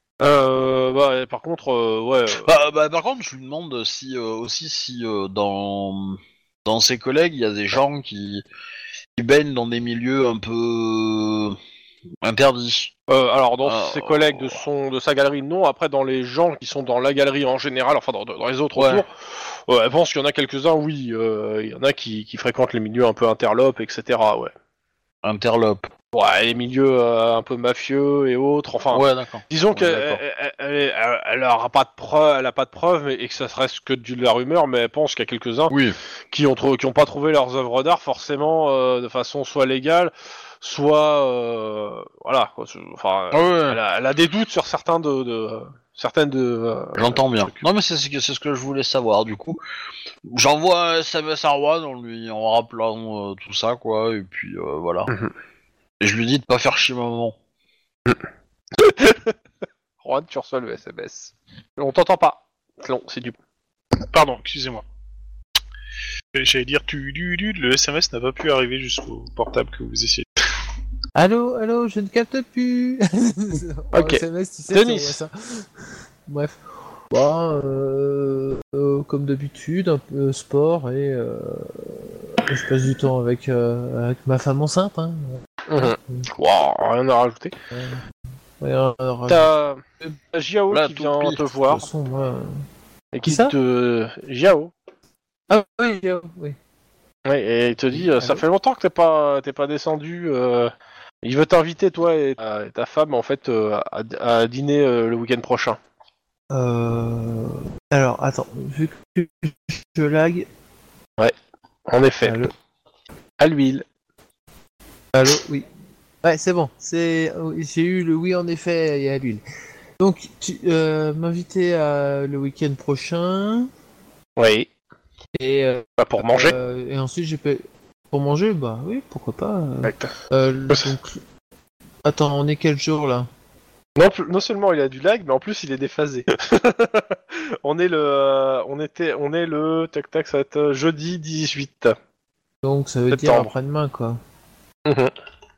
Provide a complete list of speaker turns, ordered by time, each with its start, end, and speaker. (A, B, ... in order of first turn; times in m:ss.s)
0:00.2-0:02.5 A
0:02.3-0:08.4 B
0:09.2-0:11.6 B
0:12.2-0:12.9 B
0:13.1-0:24.5 A
0:13.6-0:14.6 B
0:18.7-0:19.0 B
0:25.2-0:25.9 B
0:26.1-0:35.7 A
0:28.9-0:30.2 B
0:35.7-0:36.0 B
0:36.3-0:47.2 A
0:43.3-0:43.8 B
0:46.9-0:49.6 B
0:50.2-0:55.1 B
0:56.0-0:57.4 B
0:58.7-0:59.3 A
1:00.0-1:03.4 A
1:04.0-1:04.8 C
1:06.3-1:10.2 C
1:11.2-1:15.7 D
1:13.9-1:15.2 A
1:16.2-1:16.6 D
1:17.1-1:26.3 D
1:25.7-1:27.5 A
1:27.7-1:28.0 D
1:28.6-1:29.5 D
1:29.3-1:29.8 A
1:30.3-1:31.8 A
1:30.7-1:31.5 B
1:31.6-1:32.6 D
1:33.1-1:34.7 A
1:33.2-1:33.5 D
1:35.5-1:36.6 D
1:37.2-1:40.7 A
1:37.9-1:38.4 D
1:41.2-1:45.8 A
1:46.5-1:50.5 D
1:51.9-1:52.4 A
1:52.2-1:52.5 D
1:53.4-1:53.8 A
1:55.1-1:55.6 D
1:56.2-1:59.4 D
2:00.0-2:03.7 D
2:04.4-2:04.7 A
2:05.4-2:11.2 D
2:06.0-2:06.6 A
2:09.8-2:10.1 A
2:12.0-2:13.3 D
2:14.0-2:22.0 A
2:22.6-2:24.2 D
2:23.1-2:23.5 A
2:24.8-2:25.1 A